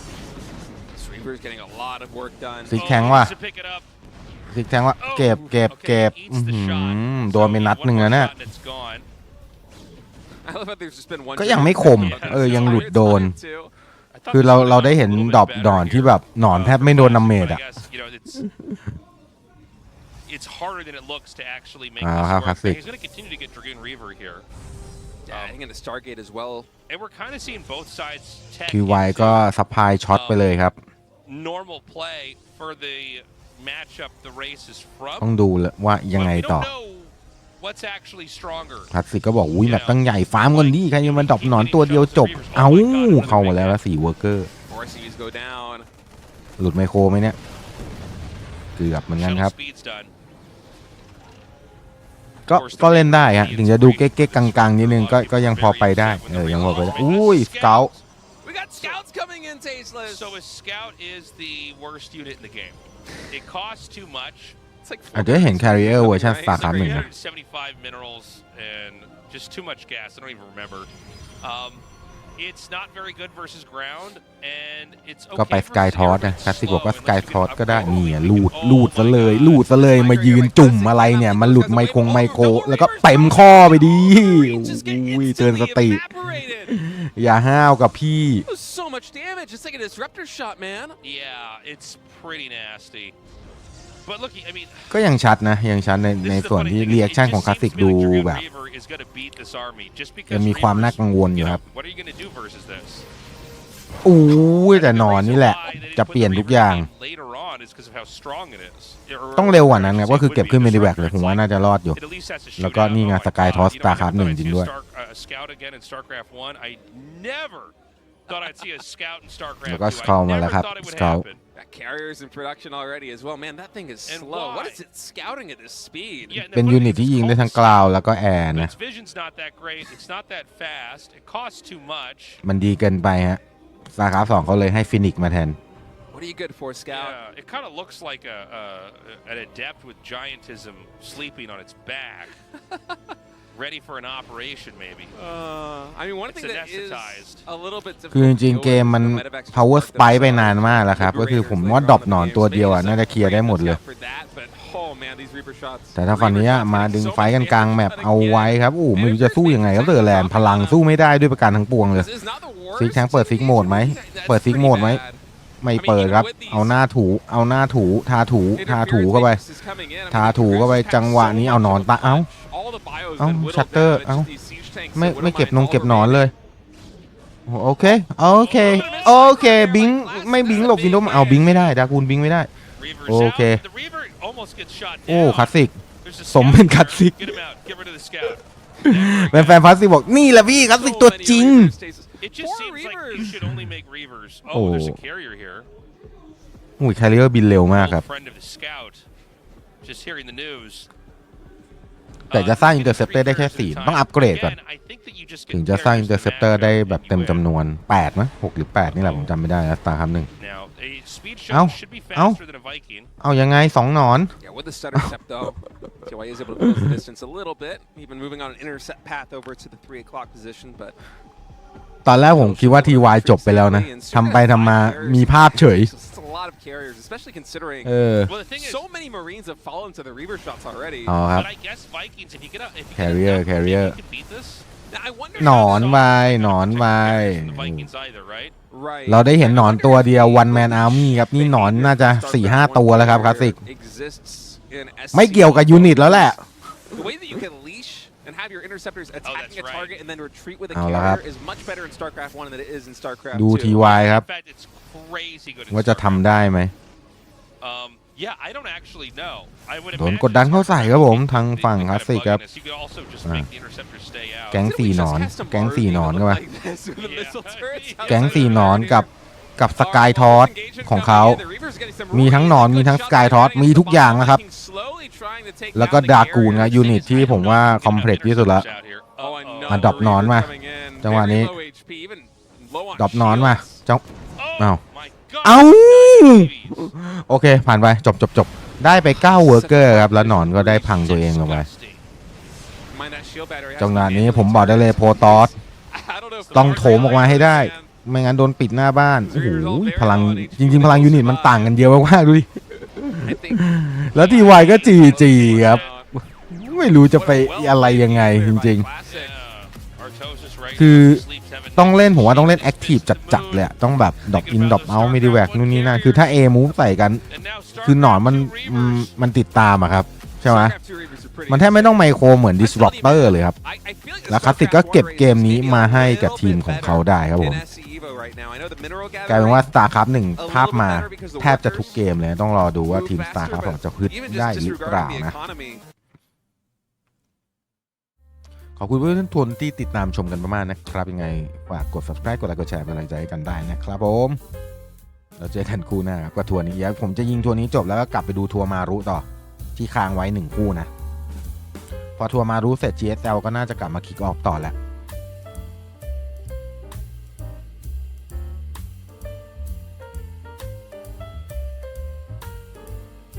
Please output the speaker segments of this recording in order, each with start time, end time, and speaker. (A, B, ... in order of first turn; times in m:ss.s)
0:00.9-0:02.9 A
0:02.7-0:03.3 B
0:02.7-0:03.9 C
0:04.5-0:08.3 B
0:05.0-0:09.0 C
0:10.4-0:13.7 A
0:11.4-0:13.4 B
0:11.8-0:12.9 C
0:14.1-0:18.5 C
0:14.3-0:17.6 B
0:20.2-0:24.4 C
0:22.0-0:22.8 B
0:25.3-0:26.7 A
0:25.3-0:25.6 C
0:26.9-0:29.4 C
0:28.7-0:30.8 B
0:30.1-0:30.5 C
0:31.2-0:35.3 C
0:35.2-0:36.7 B
0:36.1-0:38.9 C
0:38.9-0:44.5 B
0:39.6-0:43.8 C
0:44.7-0:45.9 A
0:46.6-0:47.4 B
0:48.8-0:49.5 B
0:49.1-0:50.1 C
0:52.4-0:57.9 B
0:52.5-0:58.0 C
0:58.4-1:00.3 A
1:00.0-1:04.6 C
1:04.8-1:06.8 A
1:05.1-1:07.1 B
1:06.5-1:10.9 C
1:11.4-1:11.8 C
1:12.4-1:19.7 C
1:15.3-1:26.0 B
1:19.7-1:26.8 A
1:22.2-1:23.8 C
1:26.6-1:28.4 B
1:28.4-1:31.0 A
1:31.0-1:33.1 C
1:34.0-1:35.0 C
1:34.9-1:38.4 B
1:36.2-1:43.0 C
1:40.3-1:41.6 B
1:44.0-1:46.9 B
1:44.6-1:57.7 C
1:49.4-1:52.0 B
1:52.6-1:54.7 B
1:58.3-2:01.4 C
1:59.6-2:01.2 B
2:01.5-2:06.4 A
2:04.1-2:04.8 C
2:06.3-2:07.9 C
2:06.5-2:08.7 B
2:08.5-2:12.4 C
2:12.4-2:15.6 B
2:16.1-2:17.2 A
2:16.9-2:22.3 C
2:22.5-2:23.1 A
2:23.5-2:25.1 C
2:25.1-2:40.8 A
2:26.3-2:27.4 C
2:28.1-2:33.8 B
2:35.9-2:42.1 B
2:41.9-2:46.8 A
2:42.8-2:45.0 B
2:45.6-2:49.4 B
2:48.5-2:56.3 A
2:50.1-2:52.3 B
2:53.2-2:54.3 B
2:54.9-2:56.3 B
2:57.5-3:02.5 B
2:58.3-2:59.4 C
2:58.6-3:01.5 A
3:00.5-3:01.7 C
3:02.8-3:09.8 C
3:03.0-3:03.6 B
3:05.1-3:05.8 B
3:06.3-3:07.4 B
3:08.8-3:11.7 B
3:10.3-3:13.3 A
3:12.2-3:15.7 C
3:14.5-3:15.0 B
3:16.8-3:18.0 B
3:17.7-3:19.0 C
3:19.8-3:20.9 C
3:22.3-3:27.4 C
3:22.3-3:24.6 B
3:25.5-3:30.3 B
3:28.8-3:29.3 C
3:30.4-3:33.1 C
3:31.5-3:32.4 B
3:33.2-3:34.3 B
3:34.4-3:41.0 A
3:42.0-3:45.9 B
3:42.2-3:47.9 A
3:47.8-3:48.3 B
3:48.2-3:48.8 C
3:48.5-3:51.2 A
3:51.1-3:51.5 B
3:51.3-3:54.6 C
3:53.0-3:54.0 B
3:54.9-3:56.0 A
3:55.3-3:58.5 C
3:55.4-3:57.9 B
3:58.7-4:06.3 A
3:59.1-4:03.6 B
4:05.1-4:06.5 B
4:06.9-4:13.8 A
4:09.2-4:10.0 C
4:10.7-4:11.2 B
4:13.3-4:14.2 B
4:13.8-4:16.4 C
4:15.7-4:16.7 B
4:17.6-4:24.6 C
4:19.9-4:22.4 B
4:24.5-4:26.4 B
4:24.6-4:29.1 A
4:27.0-4:28.9 C
4:28.1-4:31.4 B
4:29.7-4:37.1 A
4:32.1-4:34.4 B
4:35.7-4:38.7 B
4:36.4-4:40.2 C
4:39.2-4:43.8 A
4:39.7-4:40.5 B
4:41.0-4:41.5 B
4:43.0-4:44.0 B
4:44.4-4:46.9 C
4:45.4-4:51.7 B
4:49.2-4:50.2 A
4:50.1-4:52.0 C
4:52.9-4:57.9 A
4:53.8-4:55.5 B
4:56.4-4:57.4 C
4:56.5-5:08.9 B
4:59.2-5:01.8 A
5:03.2-5:06.1 A
5:04.1-5:05.9 C
5:07.0-5:09.3 A
5:09.0-5:16.7 C
5:10.8-5:11.2 B
5:11.7-5:17.2 B
5:17.3-5:19.1 C
5:17.8-5:20.8 B
5:20.4-5:29.7 A
5:21.5-5:23.6 B
5:24.3-5:27.6 B
5:29.3-5:35.4 B
5:30.3-5:32.1 A
5:32.8-5:35.8 A
5:38.8-5:44.4 B
5:45.4-5:50.9 B
5:52.2-5:54.7 B